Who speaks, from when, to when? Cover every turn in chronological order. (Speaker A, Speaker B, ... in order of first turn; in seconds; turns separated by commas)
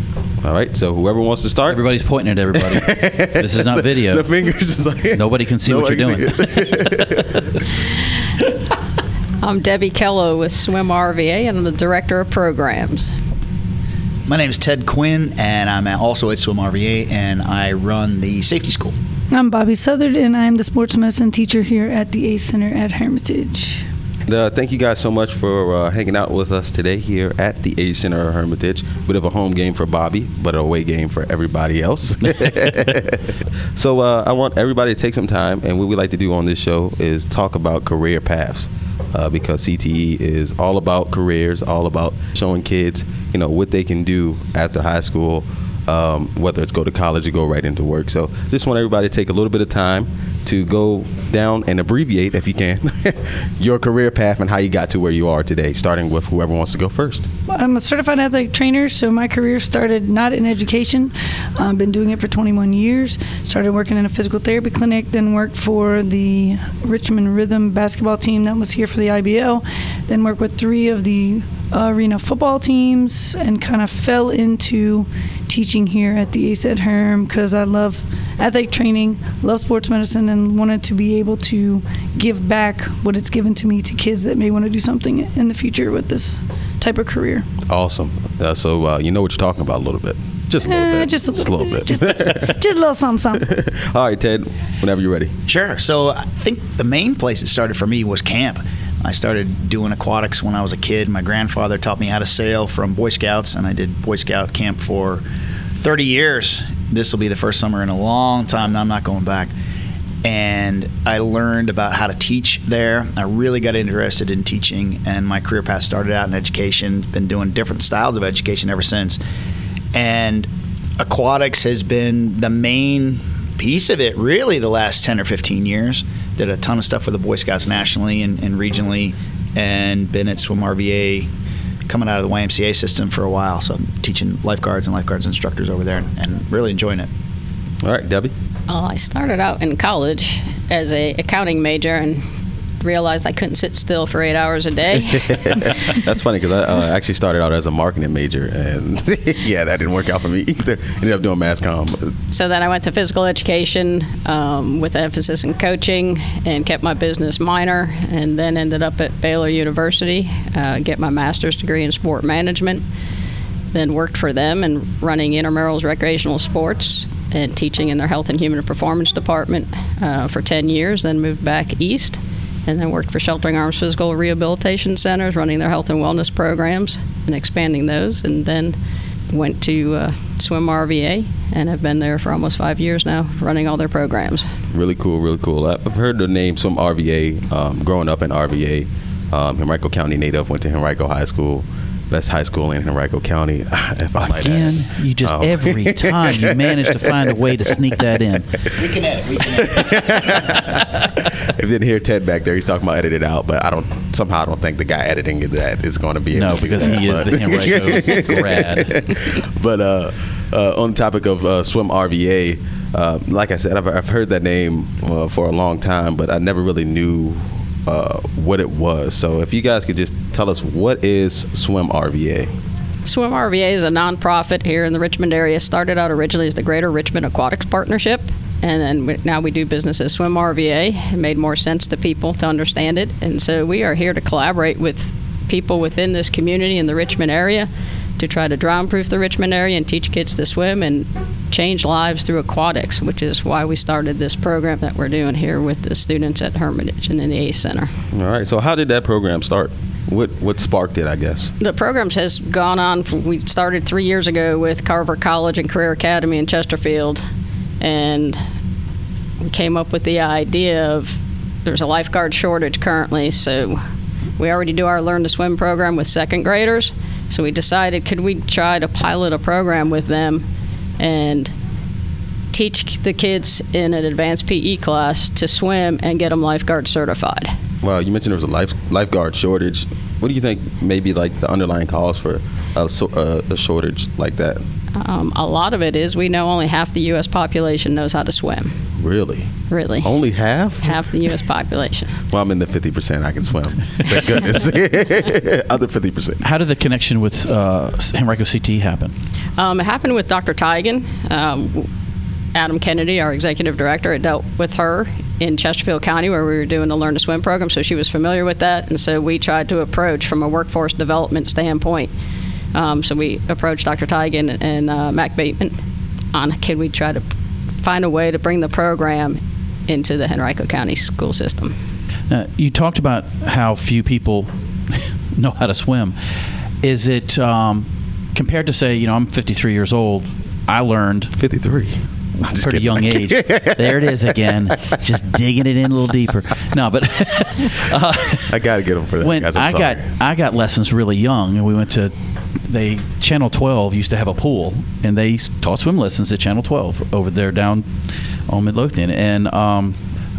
Speaker A: 0.4-1.9, Speaker B: 1.7-4.3, Speaker A: 2.5-7.4, Speaker B: 5.1-7.4, Speaker C: 9.4-13.1, Speaker D: 14.3-18.9, Speaker E: 19.3-23.8, Speaker A: 24.2-57.3, Speaker E: 57.5-87.5, Speaker A: 87.7-92.7, Speaker E: 90.6-93.5, Speaker A: 93.3-95.3, Speaker D: 95.5-105.2, Speaker D: 105.8-109.5, Speaker D: 110.2-119.2, Speaker D: 119.9-120.5, Speaker D: 121.0-131.3, Speaker D: 131.9-137.1, Speaker A: 137.8-138.3, Speaker C: 138.7-142.2, Speaker C: 142.8-145.9, Speaker A: 144.9-152.1, Speaker C: 152.3-162.8, Speaker C: 163.7-178.8, Speaker C: 179.3-184.5, Speaker A: 184.7-197.1, Speaker B: 194.2-198.7, Speaker D: 198.7-200.4, Speaker A: 199.5-222.5, Speaker B: 206.3-209.0, Speaker C: 223.0-247.9, Speaker A: 248.1-251.5, Speaker C: 251.6-257.2, Speaker C: 257.8-258.4, Speaker C: 259.4-263.8, Speaker C: 264.4-270.4, Speaker C: 271.0-271.5, Speaker C: 272.5-277.5, Speaker A: 277.8-284.6, Speaker C: 284.9-288.7, Speaker A: 289.0-289.5, Speaker C: 289.7-290.1, Speaker A: 290.0-291.3, Speaker C: 290.8-292.2, Speaker A: 292.3-296.4, Speaker B: 296.4-299.1, Speaker C: 299.6-301.9, Speaker C: 302.5-312.1, Speaker C: 312.7-315.8, Speaker C: 316.3-317.2, Speaker C: 317.8-321.7, Speaker B: 322.3-326.1, Speaker B: 326.8-331.3, Speaker A: 331.3-334.7, Speaker B: 332.5-338.5, Speaker A: 338.5-340.0, Speaker B: 339.2-342.1, Speaker B: 342.6-347.9, Speaker B: 348.5-350.0